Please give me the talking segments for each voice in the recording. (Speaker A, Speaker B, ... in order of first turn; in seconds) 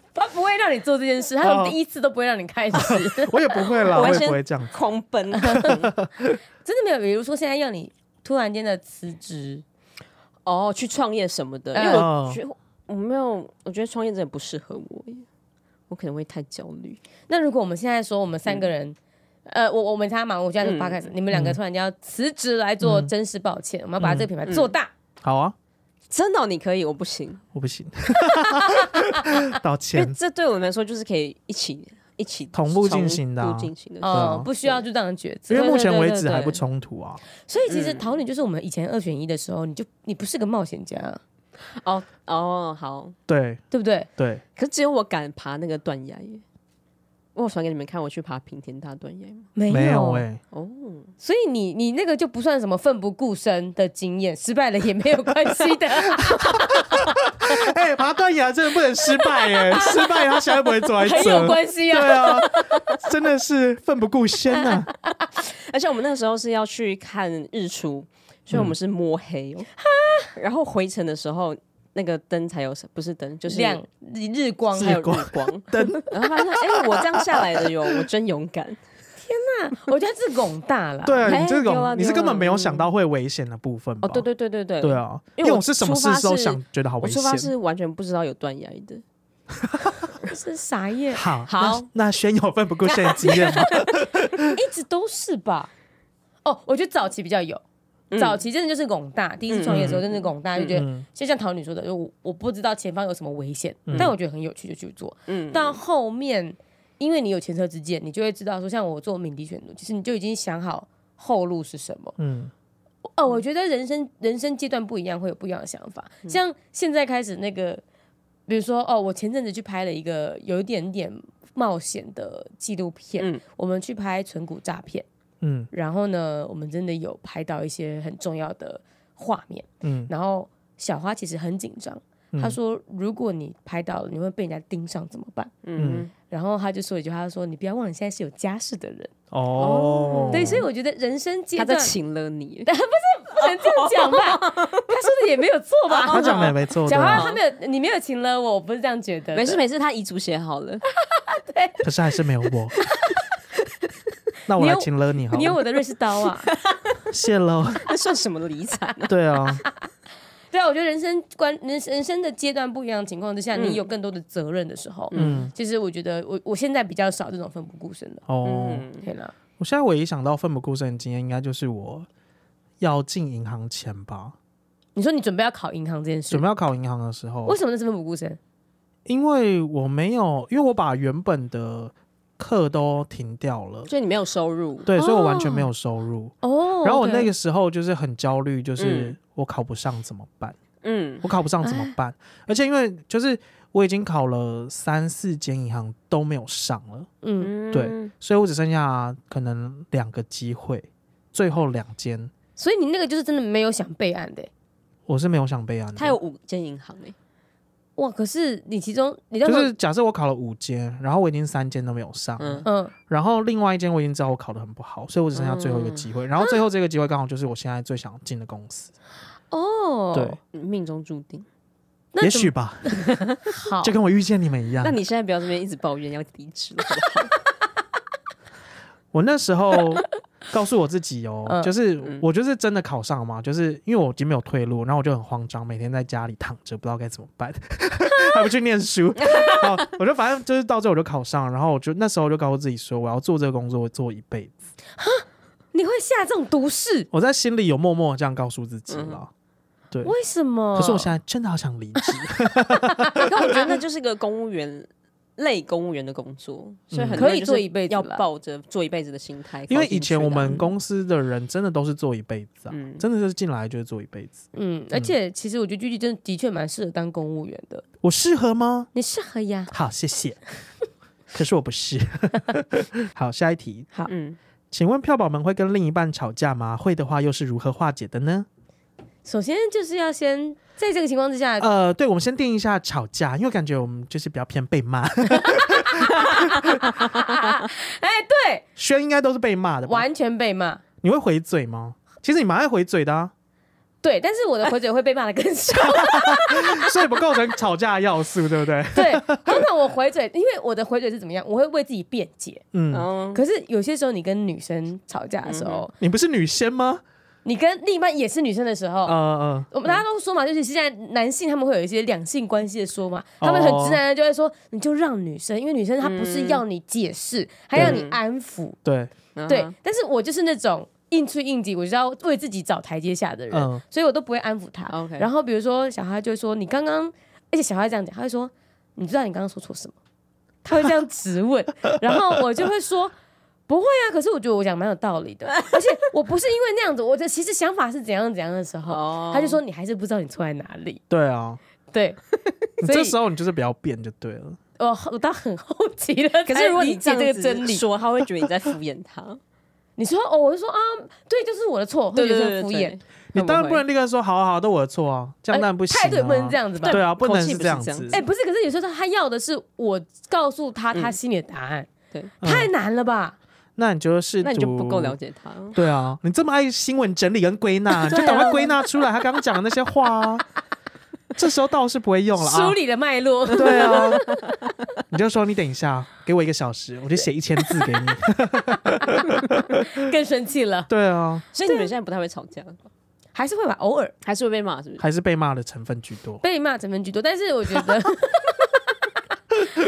Speaker A: 0.1-4.2, 5.4-5.7, 6.7-9.6, 11.7-12.1, 17.3-19.0, 19.5-24.9, 28.6-29.4, 34.0-36.5, 37.5-41.2, 43.7-44.1, 49.6-50.3, 51.2-57.2, 59.2-62.8, 69.9-70.3, 73.5-75.1, 79.2-81.3, 90.2-91.3, 92.9-93.7, 94.4-95.7, 96.5-97.6, 98.1-112.2, 113.2-117.8, 118.5-125.1, 125.7-135.5, 136.3-139.1, 140.3-141.9, 142.7-149.6, 151.1-151.8, 152.8-153.2, 154.6-156.5, 160.5-168.2, 169.0-169.3, 175.0-176.5, 177.5-178.4, 185.0-185.7, 186.4-187.3, 191.6-191.9, 197.2-197.5, 202.6-204.5, 208.0-209.7, 212.7-212.9, 219.5-220.4, 222.1-223.9, 231.5-231.7, 245.0-247.1, 250.0-251.1, 252.8-253.6, 257.2-258.2, 264.5-267.8, 268.9-269.7, 279.2-281.7, 285.8-288.6, 289.9-290.8, 294.0-297.1, 298.9-302.6, 303.3-305.9, 307.4-309.2, 309.7-318.8, 319.5-329.9, 330.6-333.1, 333.7-341.0, 341.9-342.2, 342.8-343.2, 344.8-347.8, 350.0-353.0, 355.5-357.0, 358.1-361.9, 362.4-363.4, 368.0-368.8, 372.4-374.4, 377.7-378.1, 378.7-380.9, 383.4-384.1, 386.4-388.8
Speaker B: 1.4-1.8, 2.7-4.7, 5.5-6.4, 11.9-12.4, 21.3-21.6, 22.8-23.1, 24.0-24.3, 25.2-25.6, 27.5-30.2, 32.5-34.5, 35.5-37.2, 43.3-43.6, 44.2-44.4, 49.7-50.4, 56.1-64.9, 74.8-76.0, 76.6-77.7, 81.0-84.3, 84.8-87.5, 89.6-90.1, 91.1-94.5, 99.7-100.0, 100.7-101.0, 103.9-104.1, 112.2-112.5, 125.4-125.7, 129.8-130.1, 135.8-136.1, 139.3-140.7, 146.1-147.3, 151.8-152.8, 154.5-155.6, 157.1-157.8, 159.1-159.6, 165.2-165.5, 168.3-168.9, 169.6-172.1, 172.8-174.4, 176.3-177.6, 179.1-183.9, 184.9-190.6, 191.2-197.1, 197.7-202.3, 205.1-206.2, 209.4-218.9, 222.2-222.9, 223.8-225.0, 229.1-244.6, 247.1-249.3, 250.8-253.3, 256.9-257.3, 259.7-265.1, 268.0-268.9, 269.7-270.4, 271.3-273.9, 274.7-278.5, 281.6-287.0, 288.8-290.1, 291.0-293.3, 295.8-299.6, 302.7-303.1, 306.0-307.0, 309.1-309.7, 313.4-314.0, 317.7-318.0, 318.9-319.1, 323.5-323.8, 341.1-341.6, 342.8-344.6, 353.3-358.2, 362.4-362.7, 363.8-365.2, 365.7-370.4, 371.4-372.8, 373.5-374.2, 375.1-380.0, 380.9-381.4, 385.0-386.4
Speaker C: 3.9-5.9, 10.4-15.3, 15.9-17.0, 20.6-21.1, 24.5-24.7, 26.1-27.4, 29.9-34.8, 35.5-36.6, 37.7-38.1, 41.7-43.2, 44.6-46.4, 47.4-49.5, 50.5-51.1, 65.4-69.7, 70.3-73.8, 74.8-78.8, 81.2-82.9, 84.0-89.0, 91.5-91.9, 93.3-93.8, 98.1-98.4, 99.5-100.8, 105.3-105.8, 135.6-136.1, 139.6-140.7, 141.6-142.7, 143.3-144.9, 145.9-147.4, 149.3-150.8, 156.4-157.1, 157.8-159.1, 163.5-163.8, 165.1-165.5, 168.4-169.1, 183.9-184.9, 188.8-189.2, 190.8-191.2, 197.4-198.1, 206.0-207.2, 212.4-212.7, 215.3-216.1, 220.5-221.5, 224.8-227.3, 239.2-239.8, 248.9-249.2, 253.2-260.7, 262.7-263.1, 274.1-274.4, 302.9-303.4, 305.4-305.9, 316.0-316.6, 317.8-318.2, 319.4-319.7, 324.9-325.3, 338.9-339.6, 346.5-349.4, 352.1-353.8, 356.8-358.2, 364.4-365.8, 381.5-382.8, 384.2-385.0